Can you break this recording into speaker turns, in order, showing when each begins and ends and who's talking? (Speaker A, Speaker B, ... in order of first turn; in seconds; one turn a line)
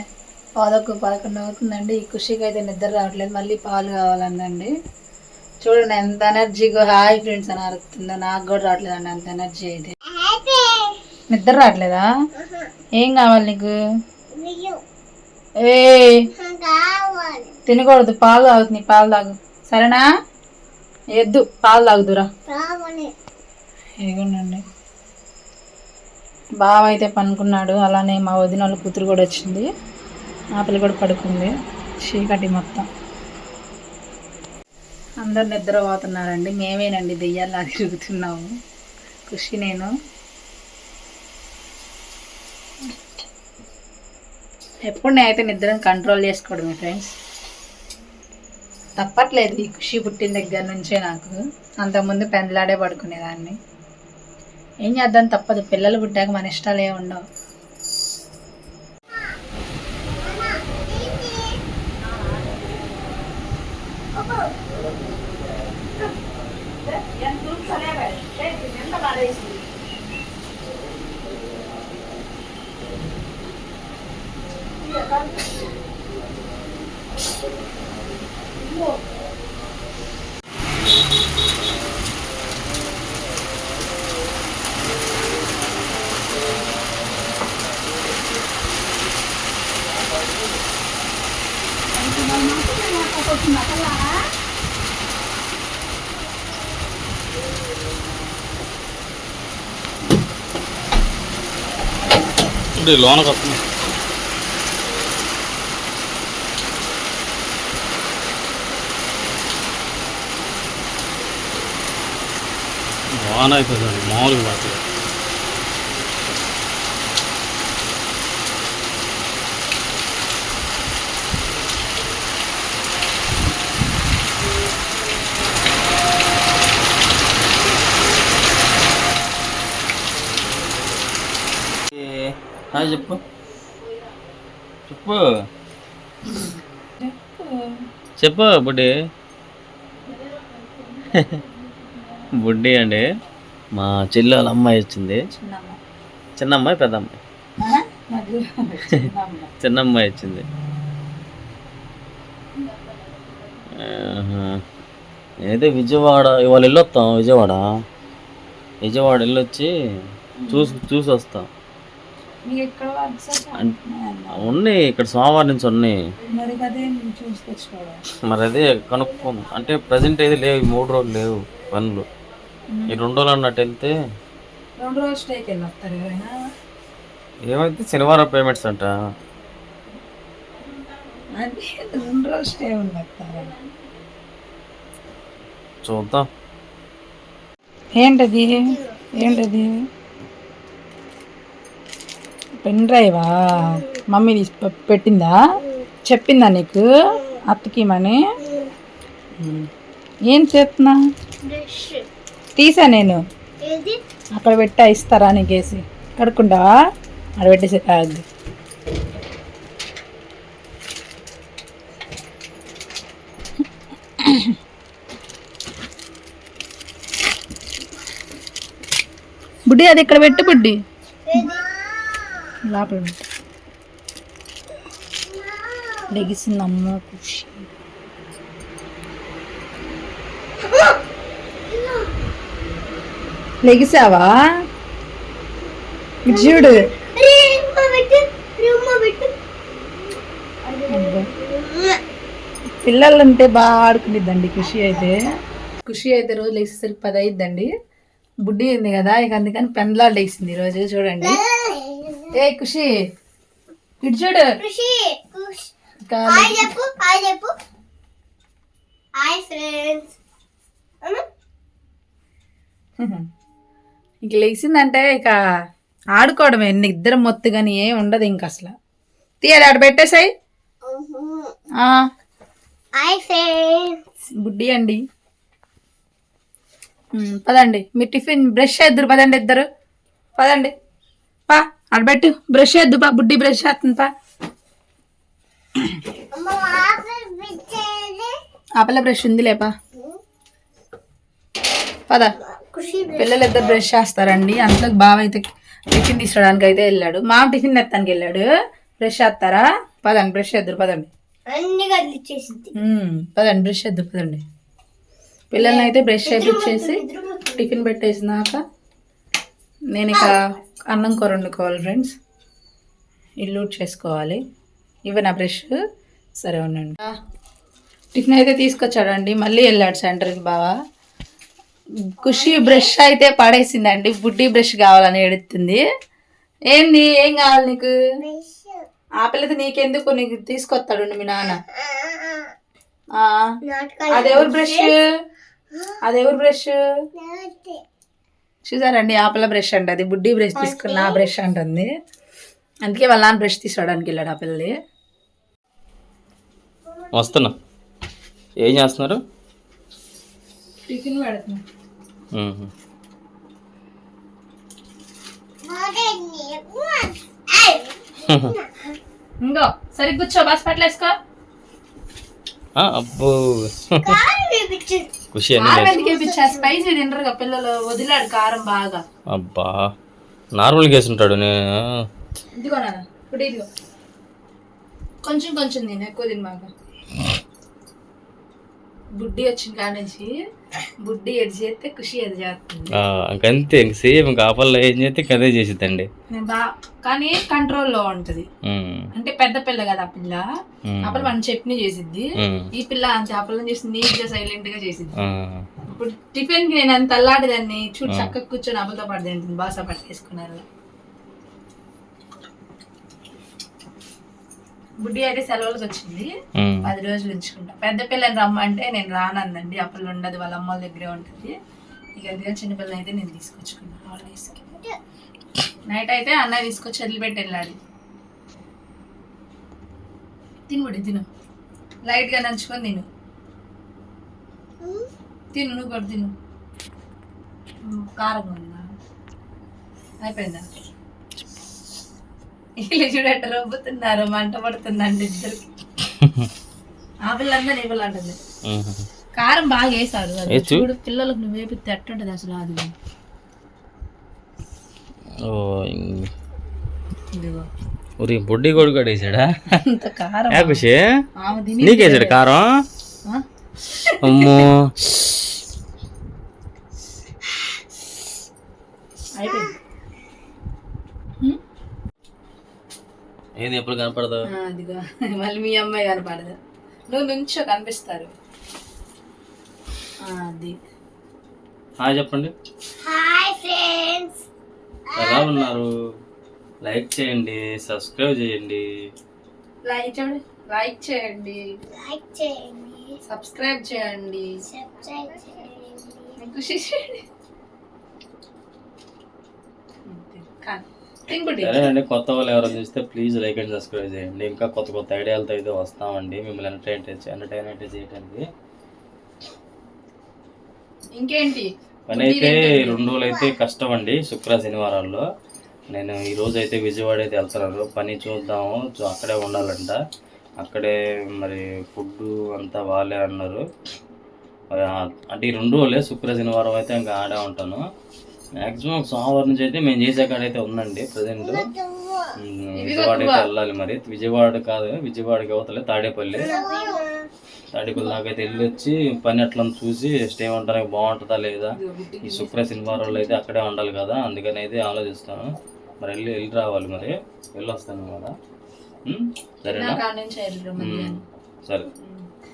Speaker A: 0.6-4.7
Speaker A: 5.6-9.9
Speaker B: 10.1-11.0
Speaker A: 11.3-12.1
Speaker B: 12.4-12.7
Speaker A: 13.0-13.7
Speaker B: 14.3-14.8
Speaker A: 15.6-16.3
Speaker B: 16.3-17.6
Speaker A: 17.7-20.0
Speaker A: 21.2-22.3
Speaker B: 22.5-23.1
Speaker A: 24.0-24.6
Speaker A: 26.6-29.7
Speaker A: 30.6-31.5
Speaker A: 32.1-32.9
Speaker A: 35.2-38.5
Speaker A: 39.3-39.9
Speaker A: 44.9-47.1
Speaker A: 49.0-53.5
Speaker A: 54.9-57.2
Speaker B: 60.2-61.6
Speaker A: 62.1-62.6
Speaker B: 64.2-64.5
Speaker A: 66.9-69.6
Speaker A: 74.8-75.6
Speaker A: 78.6-79.0
Speaker A: 91.9-94.2
Speaker C: 102.8-103.6
Speaker C: 113.2-114.8
Speaker C: 131.9-133.2
Speaker C: 134.9-135.2
Speaker A: 136.3-137.8
Speaker C: 138.2-138.9
Speaker C: 141.1-141.4
Speaker C: 142.4-143.0
Speaker C: 143.7-145.2
Speaker A: 145.3-145.8
Speaker C: 146.4-147.1
Speaker A: 147.6-149.5
Speaker C: 149.6-150.5
Speaker C: 153.8-154.6
Speaker C: 155.5-157.6
Speaker C: 158.8-159.7
Speaker A: 160.4-160.8
Speaker C: 160.5-161.5
Speaker A: 162.5-164.5
Speaker C: 164.3-166.0
Speaker A: 166.3-168.0
Speaker C: 168.3-172.1
Speaker A: 172.7-173.0
Speaker C: 172.9-173.9
Speaker A: 174.8-176.3
Speaker C: 177.5-178.9
Speaker A: 181.4-183.5
Speaker C: 185.8-186.2
Speaker A: 188.0-189.7
Speaker B: 188.5-189.4
Speaker A: 192.6-195.4
Speaker B: 193.6-194.0
Speaker A: 196.1-196.9
Speaker A: 197.5-198.2
Speaker B: 198.4-198.7
Speaker A: 199.4-199.7
Speaker A: 200.3-201.0
Speaker B: 201.4-202.1
Speaker A: 202.6-203.2
Speaker B: 203.6-204.0
Speaker A: 204.4-206.7
Speaker A: 207.4-208.2
Speaker A: 214.2-214.6
Speaker A: 219.7-220.8
Speaker B: 221.3-222.5
Speaker A: 222.6-223.3
Speaker B: 225.2-226.3
Speaker A: 226.1-227.7
Speaker B: 230.6-231.0
Speaker B: 231.7-232.1
Speaker A: 233.6-234.3
Speaker A: 236.3-236.8
Speaker B: 236.3-239.3
Speaker B: 240.6-242.0
Speaker A: 240.9-241.3
Speaker A: 242.8-245.2
Speaker B: 244.6-245.1
Speaker A: 245.8-247.7
Speaker A: 248.5-251.4
Speaker B: 251.2-252.3
Speaker A: 252.3-252.9
Speaker A: 254.0-254.5
Speaker B: 254.6-255.7
Speaker A: 256.1-256.7
Speaker B: 256.3-257.6
Speaker B: 259.2-260.1
Speaker A: 264.2-265.4
Speaker A: 266.2-268.7
Speaker A: 269.4-270.3
Speaker B: 270.8-271.5
Speaker B: 273.0-274.0
Speaker A: 274.4-275.0
Speaker A: 277.2-279.7
Speaker A: 280.4-280.7
Speaker A: 281.5-284.1
Speaker B: 286.3-288.4
Speaker A: 288.8-289.7
Speaker A: 292.1-292.4
Speaker B: 292.4-293.7
Speaker A: 293.2-298.5
Speaker A: 299.0-301.1
Speaker B: 301.5-302.7
Speaker A: 302.8-304.4
Speaker A: 305.5-307.0
Speaker B: 305.6-307.8
Speaker A: 307.6-308.6
Speaker A: 309.9-310.4
Speaker A: 310.9-312.1
Speaker A: 313.4-314.4
Speaker A: 315.1-315.7
Speaker A: 316.4-317.1
Speaker A: 318.1-320.7
Speaker A: 322.1-325.8
Speaker B: 322.2-322.9
Speaker A: 326.7-327.9
Speaker B: 328.2-328.9
Speaker A: 329.2-331.6
Speaker B: 331.8-332.5
Speaker A: 333.2-333.4
Speaker B: 333.6-334.9
Speaker A: 334.1-335.0
Speaker A: 336.0-336.8
Speaker B: 337.2-337.8
Speaker A: 338.7-341.9
Speaker B: 340.6-341.3
Speaker A: 342.9-344.7
Speaker B: 346.9-347.3
Speaker C: 347.1-347.6
Speaker C: 348.6-349.2
Speaker A: 350.9-351.6
Speaker C: 352.3-352.7
Speaker B: 355.6-359.0
Speaker C: 358.3-358.5
Speaker A: 359.4-361.1
Speaker C: 362.8-364.2
Speaker B: 364.0-365.1
Speaker C: 365.3-366.0
Speaker A: 365.6-369.0
Speaker B: 365.9-366.7
Speaker C: 369.3-369.9
Speaker C: 370.6-371.6
Speaker A: 372.6-373.7
Speaker A: 375.2-376.7
Speaker A: 379.2-380.3
Speaker A: 381.0-382.9
Speaker C: 382.9-386.1
Speaker A: 386.3-388.5
Speaker C: 388.6-389.1
Speaker A: 389.1-390.4
Speaker C: 390.9-391.3
Speaker A: 391.1-395.1
Speaker C: 392.4-392.7
Speaker C: 395.2-395.6
Speaker A: 395.9-400.6
Speaker C: 398.1-398.3
Speaker A: 405.0-406.3
Speaker C: 406.6-406.9
Speaker A: 406.9-411.5
Speaker A: 412.2-414.6
Speaker B: 414.7-415.0
Speaker A: 415.9-417.8
Speaker A: 420.7-421.3
Speaker A: 422.1-423.1
Speaker B: 424.8-425.1
Speaker A: 425.5-426.3
Speaker A: 427.9-428.9
Speaker A: 430.2-430.6
Speaker A: 432.8-435.7
Speaker C: 436.2-436.5
Speaker A: 437.3-438.4
Speaker C: 438.7-439.1
Speaker A: 439.4-442.9
Speaker C: 440.5-440.9
Speaker C: 445.5-446.3
Speaker A: 447.3-447.7
Speaker C: 448.2-449.5
Speaker A: 449.8-450.8
Speaker C: 450.5-451.1
Speaker A: 451.4-452.4
Speaker C: 451.8-452.8
Speaker A: 453.3-454.6
Speaker C: 454.2-454.9
Speaker A: 459.4-459.8
Speaker C: 463.6-464.4
Speaker A: 464.5-466.6
Speaker A: 467.1-468.3
Speaker A: 470.2-470.7
Speaker C: 472.0-472.5
Speaker B: 473.0-474.4
Speaker B: 475.1-475.7
Speaker C: 475.2-475.9
Speaker C: 476.8-478.8
Speaker A: 479.9-481.6
Speaker B: 481.9-483.2
Speaker A: 483.3-484.6
Speaker B: 484.7-486.4
Speaker A: 486.4-487.2
Speaker A: 490.1-491.9
Speaker C: 491.6-498.4
Speaker A: 501.1-503.0
Speaker C: 502.1-505.2
Speaker B: 503.2-503.6
Speaker C: 505.9-510.0
Speaker C: 510.6-513.6
Speaker C: 514.7-517.8
Speaker C: 518.6-521.7
Speaker B: 521.4-522.4
Speaker C: 522.4-526.5
Speaker A: 522.8-523.5
Speaker B: 526.3-527.3
Speaker C: 527.7-538.3
Speaker A: 531.7-533.4
Speaker C: 539.1-540.0
Speaker A: 539.7-541.2
Speaker C: 540.8-541.9
Speaker A: 542.0-542.3